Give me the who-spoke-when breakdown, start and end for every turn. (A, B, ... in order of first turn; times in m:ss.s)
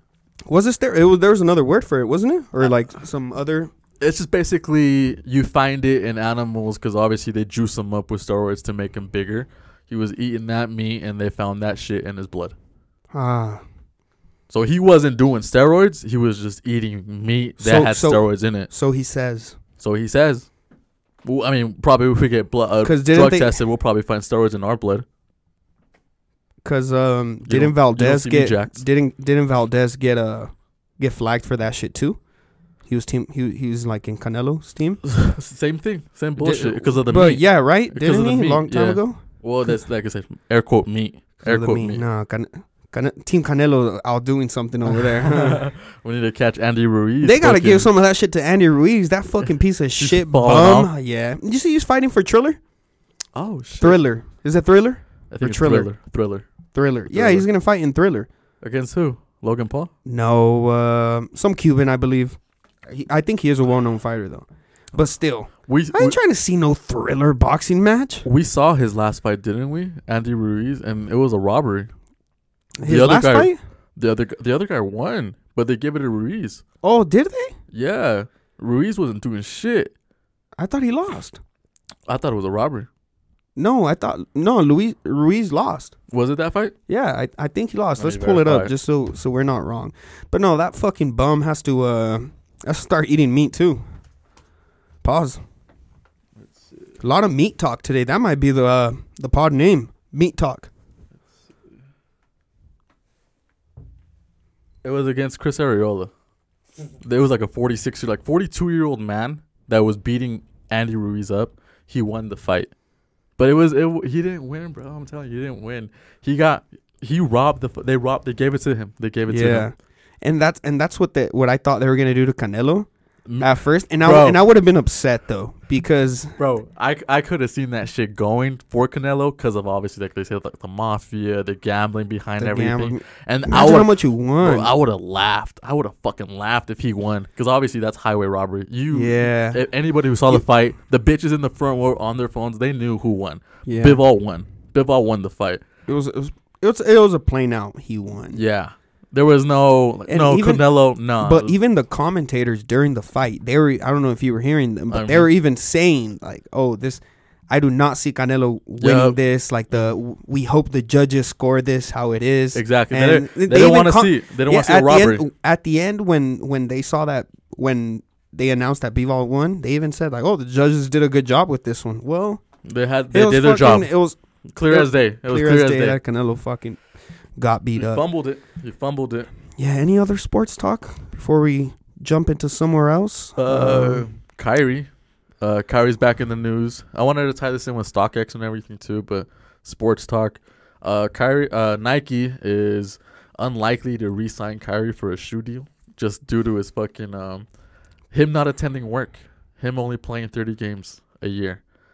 0:00.5-0:03.7 A
0:04.0-0:12.6 B
0:13.1-0:13.6 A
0:14.5-0:18.7 B
0:17.6-0:19.6 A
0:19.8-0:20.5 B
0:21.2-0:25.0 B
0:22.8-0:23.6 A
0:26.6-0:32.2 A
0:27.5-0:28.8 B
0:32.9-0:35.0 A
0:35.0-0:42.0 B
0:36.4-0:39.8 A
0:41.4-0:45.6 A
0:44.9-0:47.9 B
0:47.2-0:52.6 A
0:50.0-0:50.9 B
0:53.4-0:54.0 B
0:53.8-0:55.9 A
0:55.3-0:56.5 B
0:56.7-0:58.3 A
0:57.1-0:57.5 B
0:58.6-0:59.9 B
1:00.0-1:08.3 A
1:05.7-1:06.2 B
1:08.2-1:11.9 B
1:12.8-1:13.6 A
1:12.8-1:16.6 B
1:16.8-1:17.5 A
1:17.7-1:19.9 B
1:20.6-1:21.4 A
1:22.1-1:22.9 B
1:23.6-1:26.0 A
1:26.1-1:26.7 B
1:26.9-1:33.8 A
1:28.0-1:28.7 B
1:35.0-1:35.4 A
1:37.0-1:40.7 A
1:44.8-1:46.1 B
1:47.0-1:52.7 B
1:53.4-1:59.7 B
1:59.3-2:02.9 A
2:03.3-2:04.4 B
2:03.4-2:06.4 A
2:06.4-2:25.6 B
2:12.4-2:14.7 A
2:18.9-2:19.6 A
2:23.7-2:24.0 A
2:25.9-2:28.4 A
2:28.3-2:31.6 B
2:30.1-2:30.7 A
2:31.2-2:52.4 A
2:34.9-2:35.3 B
2:38.8-2:39.2 B
2:42.5-2:45.2 B
2:52.7-2:53.9 B
2:53.1-2:54.2 A
2:54.5-2:56.0 B
2:54.7-2:56.8 A
2:57.4-2:58.0 A
2:57.8-2:59.3 B
2:59.6-3:04.1 A
3:03.4-3:04.9 B
3:05.4-3:17.5 B
3:18.1-3:21.6 B